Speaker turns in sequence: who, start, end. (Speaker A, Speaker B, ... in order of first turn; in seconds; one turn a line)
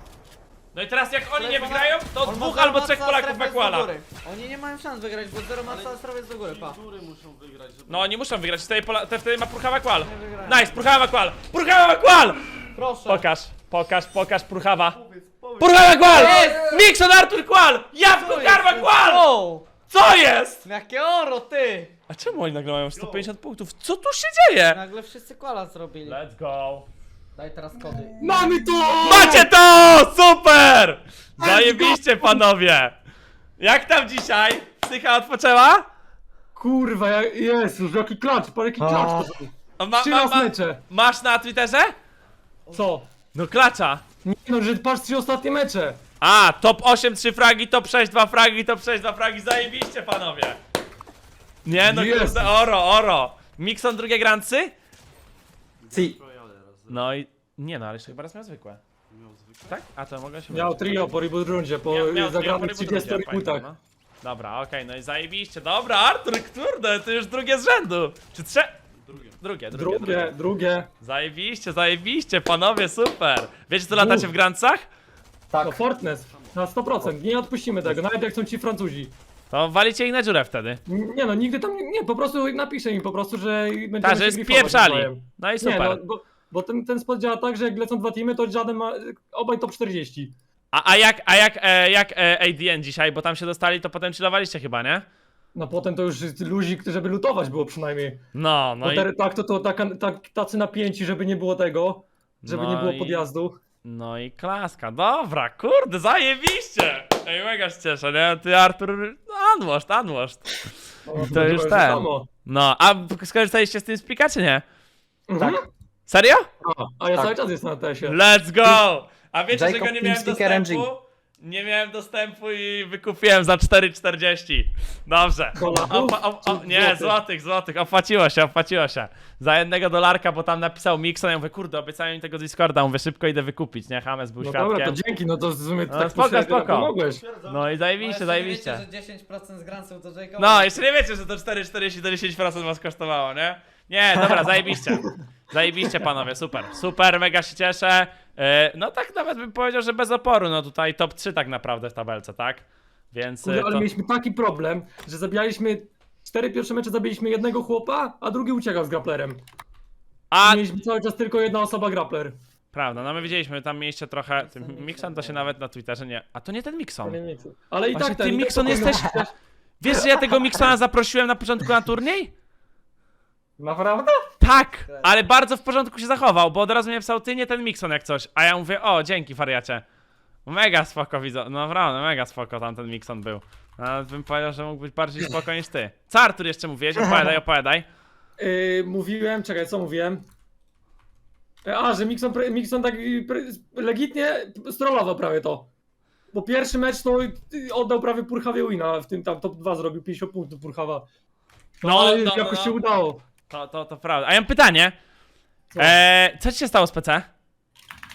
Speaker A: 0.7-3.9
Speaker B: 1.3-6.8
Speaker C: 5.6-8.1
Speaker A: 7.9-15.0
Speaker B: 10.0-10.9
Speaker B: 12.8-13.3
Speaker C: 14.9-16.8
Speaker A: 15.6-19.3
Speaker B: 16.1-16.8
Speaker B: 18.1-19.7
Speaker A: 19.9-20.6
Speaker B: 20.6-21.9
Speaker A: 22.1-24.8
Speaker C: 23.0-23.2
Speaker B: 24.6-26.2
Speaker A: 26.0-26.9
Speaker B: 27.4-28.4
Speaker D: 28.2-29.5
Speaker A: 29.0-33.0
Speaker D: 31.4-32.4
Speaker A: 33.6-35.9
Speaker D: 36.6-40.8
Speaker E: 38.8-39.3
Speaker A: 39.8-41.9
Speaker D: 42.7-43.1
Speaker A: 43.3-44.0
Speaker D: 44.2-46.0
Speaker A: 46.2-50.6
Speaker A: 51.6-54.7
Speaker D: 51.7-52.5
Speaker C: 55.8-57.2
Speaker E: 55.9-56.2
Speaker A: 56.9-58.8
Speaker C: 59.1-59.8
Speaker A: 59.7-61.2
Speaker D: 60.5-63.7
Speaker A: 61.9-68.8
Speaker C: 68.9-69.4
Speaker A: 69.4-70.4
Speaker D: 69.7-70.9
Speaker A: 71.0-74.8
Speaker D: 73.9-74.3
Speaker E: 75.5-75.8
Speaker D: 75.6-79.1
Speaker C: 76.2-76.7
Speaker A: 79.5-80.8
Speaker D: 80.9-90.3
Speaker A: 84.0-86.0
Speaker A: 90.7-95.0
Speaker D: 95.5-98.2
Speaker A: 98.3-99.1
Speaker D: 98.8-103.6
Speaker A: 102.4-103.3
Speaker A: 103.8-110.6
Speaker D: 111.1-112.3
Speaker A: 111.2-114.6
Speaker D: 115.3-115.6
Speaker A: 116.1-116.5
Speaker D: 116.6-118.2
Speaker A: 118.0-135.0
Speaker E: 119.5-120.9
Speaker D: 125.6-127.2
Speaker D: 134.4-137.2
Speaker A: 135.9-138.8
Speaker C: 137.1-137.9
Speaker B: 138.0-140.9
Speaker A: 140.4-153.9
Speaker D: 153.4-159.4
Speaker A: 160.3-160.7
Speaker D: 160.4-162.4
Speaker A: 162.7-167.2
Speaker B: 164.8-165.2
Speaker D: 167.0-169.3
Speaker A: 167.9-169.2
Speaker A: 169.8-172.3
Speaker E: 173.6-174.2
Speaker A: 174.4-179.8
Speaker A: 180.5-187.8
Speaker E: 187.0-187.3
Speaker D: 188.4-190.2
Speaker D: 191.7-195.7
Speaker D: 196.3-201.0
Speaker D: 201.8-203.2
Speaker A: 201.8-202.8
Speaker A: 203.5-204.9
Speaker A: 205.8-207.3